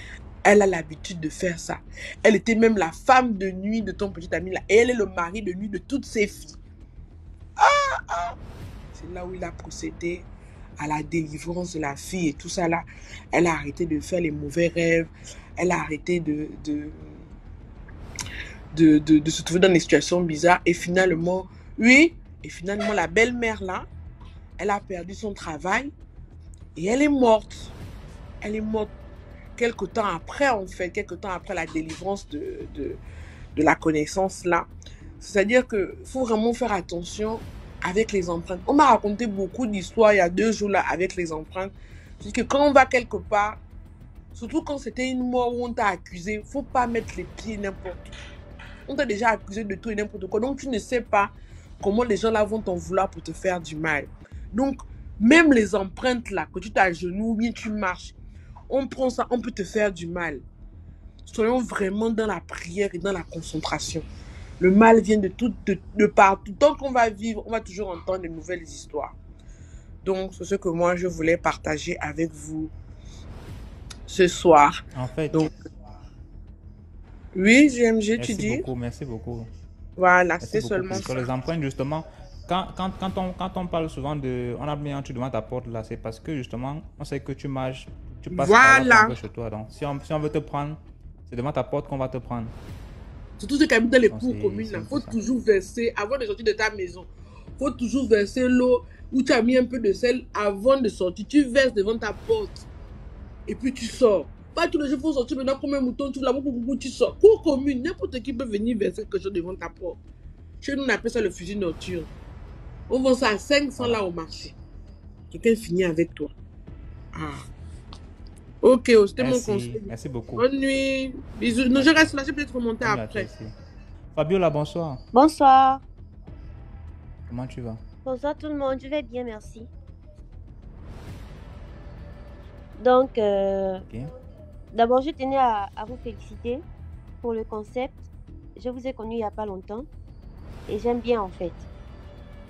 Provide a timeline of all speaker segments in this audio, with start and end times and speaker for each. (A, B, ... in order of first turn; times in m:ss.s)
0:00.4-0:06.6 A
0:07.6-0:08.4 A
0:08.9-0:10.3 A
0:10.8-0:17.2 A
0:18.7-0:23.9 A
0:24.6-0:25.9 A
0:26.8-0:27.7 A
0:28.4-0:28.9 A
0:29.6-0:33.0 A
0:33.6-0:34.7 A
0:35.2-0:43.6 A
0:44.3-0:48.1 A
0:48.9-0:58.2 A
0:58.7-1:00.4 A
1:01.2-1:04.1 A
1:04.6-1:09.2 A
1:10.0-1:12.7 A
1:14.1-1:14.8 A
1:14.9-1:15.4 B
1:17.4-1:18.7 A
1:18.2-1:19.5 B
1:20.0-1:21.3 A
1:20.4-1:32.6 B
1:28.3-1:29.2 A
1:33.4-1:42.7 A
1:34.1-1:35.2 B
1:43.5-1:50.0 A
1:50.6-1:52.1 A
1:52.9-1:54.6 A
1:53.8-1:54.0 B
1:55.3-1:56.3 A
1:57.2-1:57.4 A
1:58.6-2:03.3 A
1:59.2-2:00.5 B
2:01.7-2:02.1 B
2:02.8-2:03.5 B
2:04.1-2:05.0 B
2:05.1-2:05.8 C
2:07.3-2:07.8 B
2:08.0-2:09.7 C
2:12.8-2:13.8 C
2:14.7-2:16.6 C
2:17.2-2:18.0 C
2:18.6-2:19.9 C
2:20.7-2:21.7 C